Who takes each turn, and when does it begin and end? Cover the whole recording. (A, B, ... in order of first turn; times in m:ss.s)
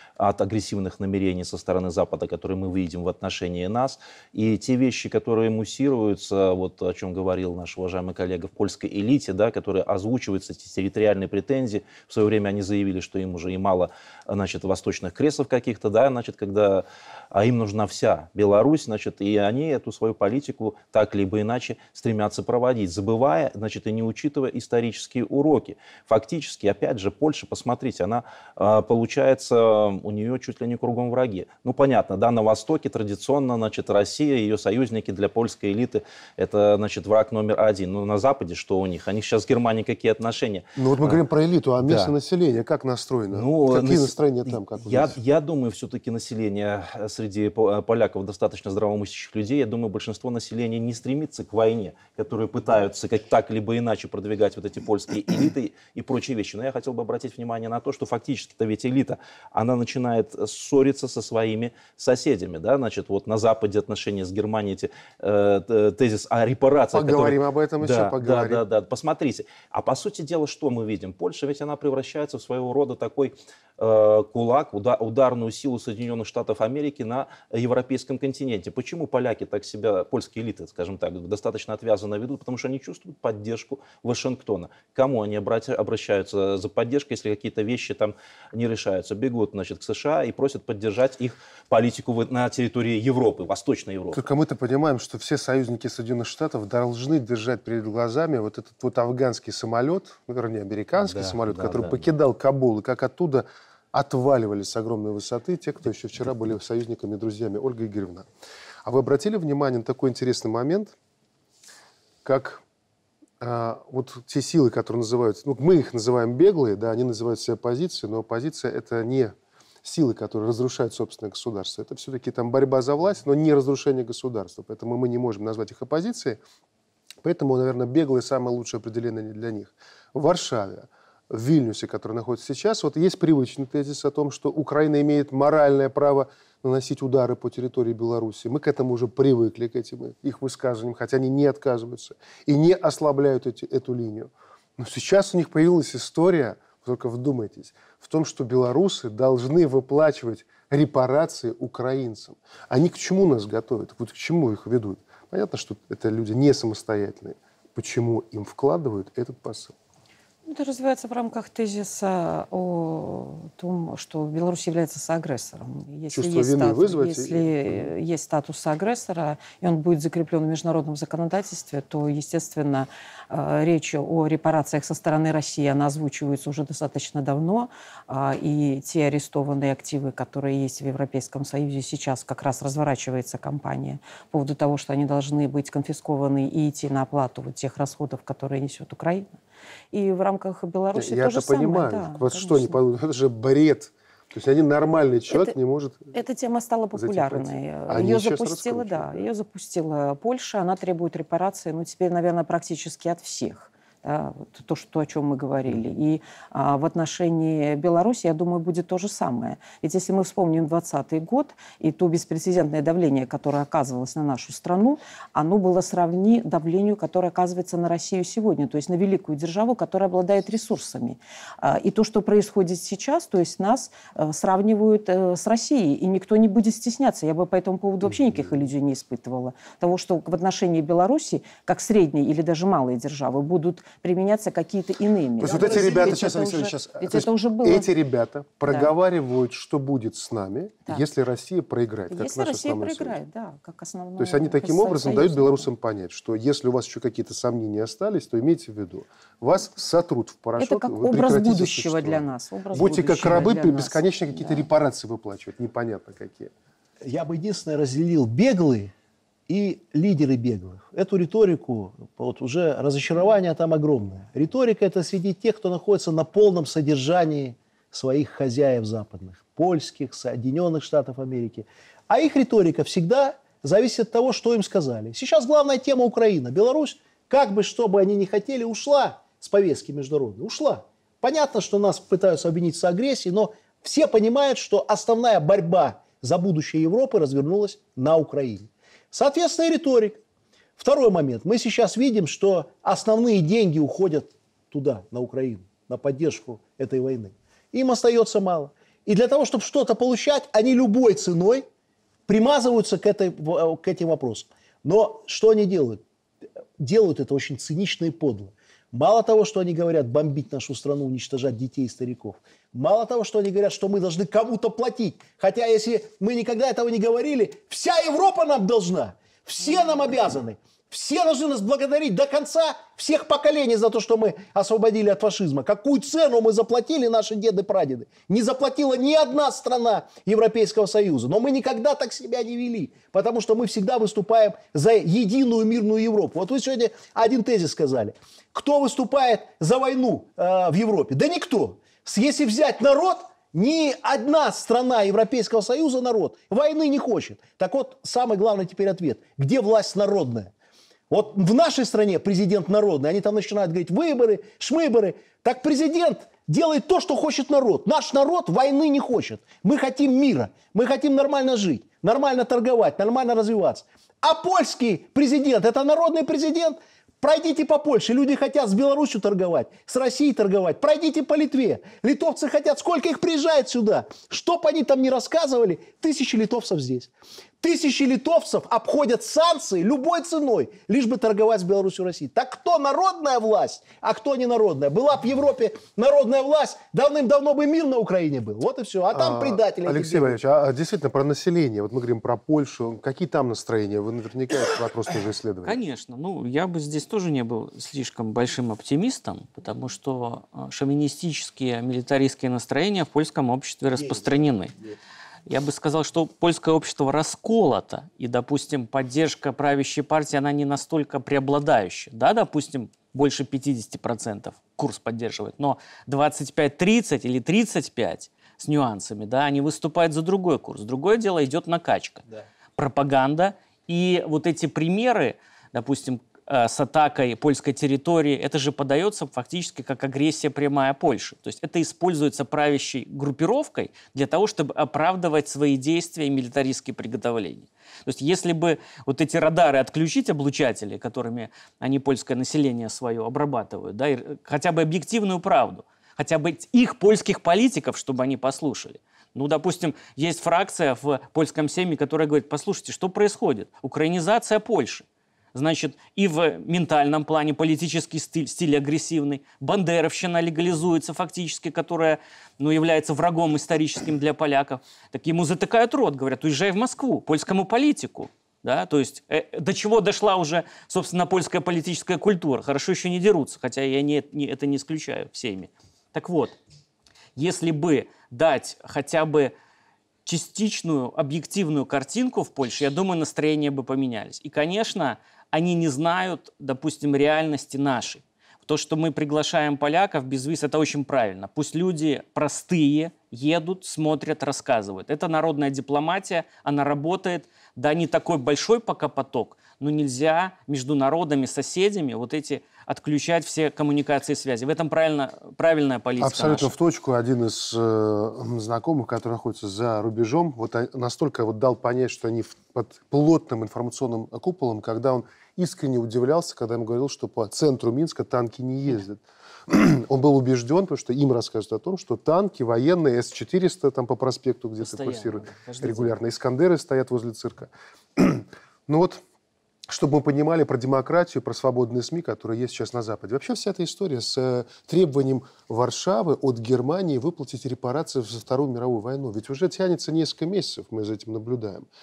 0:00.2-0:41.2 A
0:40.8-0:45.2 B
0:41.8-0:42.2 A
0:43.3-1:34.2 A
1:06.9-1:08.6 B
1:34.1-1:48.3 B
1:41.0-1:42.1 A
1:48.8-1:51.0 B
1:52.2-1:52.6 B
1:53.4-2:06.4 B
2:07.2-2:39.7 B
2:40.5-3:09.3 C
2:46.1-2:47.9 B
3:09.9-3:12.8 C
3:10.9-3:16.1 B
3:15.3-3:15.6 C
3:16.1-3:57.9 C
3:16.9-3:19.3 B
3:55.4-4:03.2 B
3:55.5-3:56.1 D
3:58.7-3:58.9 C
4:02.1-4:05.7 C
4:04.2-4:16.5 B
4:10.6-4:14.7 C
4:17.0-4:18.9 D
4:19.5-4:50.2 D
4:50.8-5:01.7 D
5:02.3-5:06.0 D
5:06.8-5:50.5 D
5:51.1-6:30.4 D
6:29.1-6:35.8 B
6:35.6-6:44.8 E
6:45.5-7:02.2 E
7:02.8-7:56.6 E
7:57.4-7:59.5 E
8:00.3-8:26.7 E
8:26.2-8:49.2 B
8:44.8-8:46.2 E
8:49.9-9:01.9 B